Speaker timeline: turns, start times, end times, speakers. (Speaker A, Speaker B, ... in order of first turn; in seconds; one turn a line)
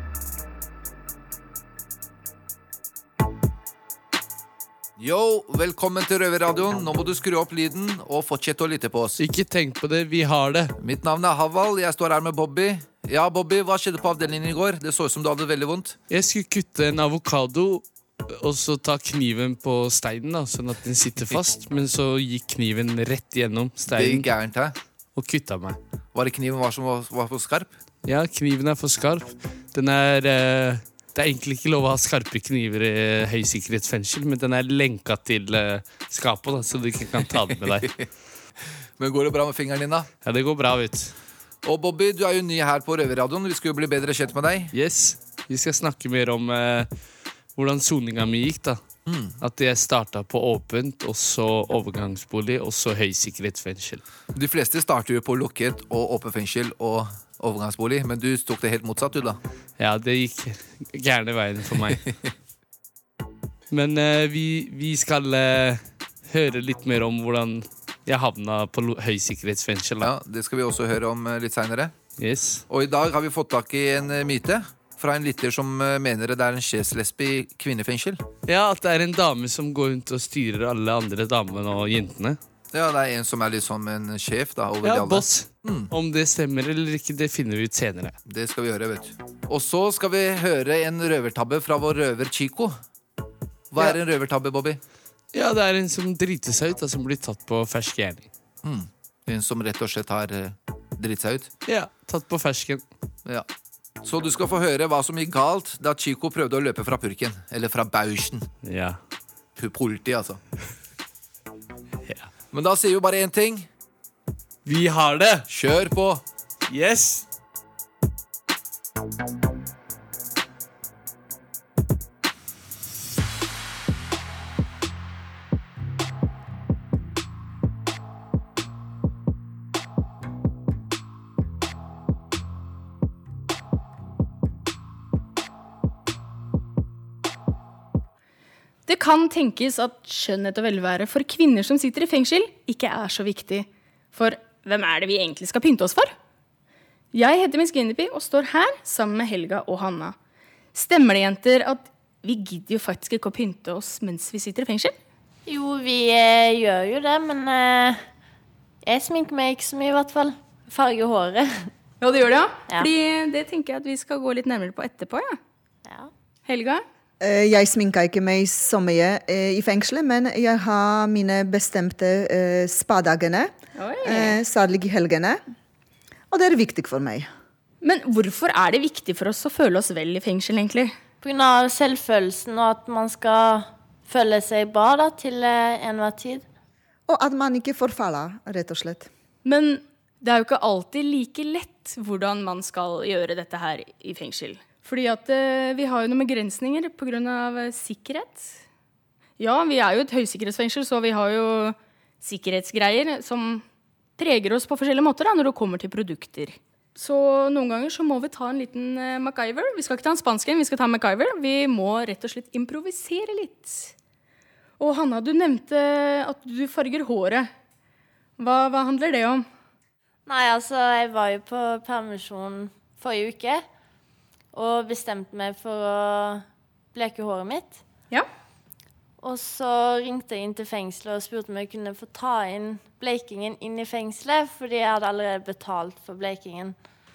Speaker A: 5.0-9.2
Speaker B: 9.2-10.8
Speaker A: 10.8-16.0
Speaker B: 16.1-24.3
Speaker A: 23.9-24.7
Speaker B: 25.1-25.8
Speaker A: 26.1-27.7
Speaker B: 28.1-38.0
Speaker A: 39.0-40.1
Speaker B: 40.2-41.1
Speaker A: 41.6-44.7
Speaker B: 44.7-46.9
Speaker B: 47.5-48.8
Speaker A: 49.1-49.4
Speaker B: 49.4-54.0
Speaker A: 54.3-59.4
Speaker B: 59.8-62.1
Speaker B: 63.7-70.1
Speaker A: 70.0-71.9
Speaker B: 72.2-72.6
Speaker A: 72.7-78.2
Speaker B: 78.5-82.4
Speaker A: 82.7-85.9
Speaker B: 84.8-88.2
Speaker A: 88.3-92.8
Speaker A: 93.7-94.8
Speaker B: 95.3-98.3
Speaker A: 98.6-101.5
Speaker B: 101.7-102.8
Speaker A: 104.0-108.5
Speaker B: 108.6-109.0
Speaker A: 109.6-110.4
Speaker A: 112.5-113.7
Speaker B: 114.7-115.5
Speaker A: 115.5-116.2
Speaker B: 116.7-117.3
Speaker C: 138.9-146.1
Speaker C: 147.1-150.2
Speaker C: 150.7-154.9
Speaker D: 155.5-158.0
Speaker D: 158.8-161.7
Speaker C: 162.0-165.4
Speaker C: 166.5-166.8
Speaker E: 167.2-173.5
Speaker C: 173.8-174.4
Speaker E: 174.0-175.4
Speaker E: 176.3-177.3
Speaker C: 177.8-180.9
Speaker D: 181.2-186.4
Speaker E: 187.1-189.1
Speaker C: 189.4-198.6
Speaker C: 199.4-203.6
Speaker C: 204.2-213.9
Speaker C: 214.8-217.5
Speaker C: 218.4-219.4
Speaker D: 220.3-223.6
Speaker D: 224.5-227.8
Speaker D: 229.2-236.8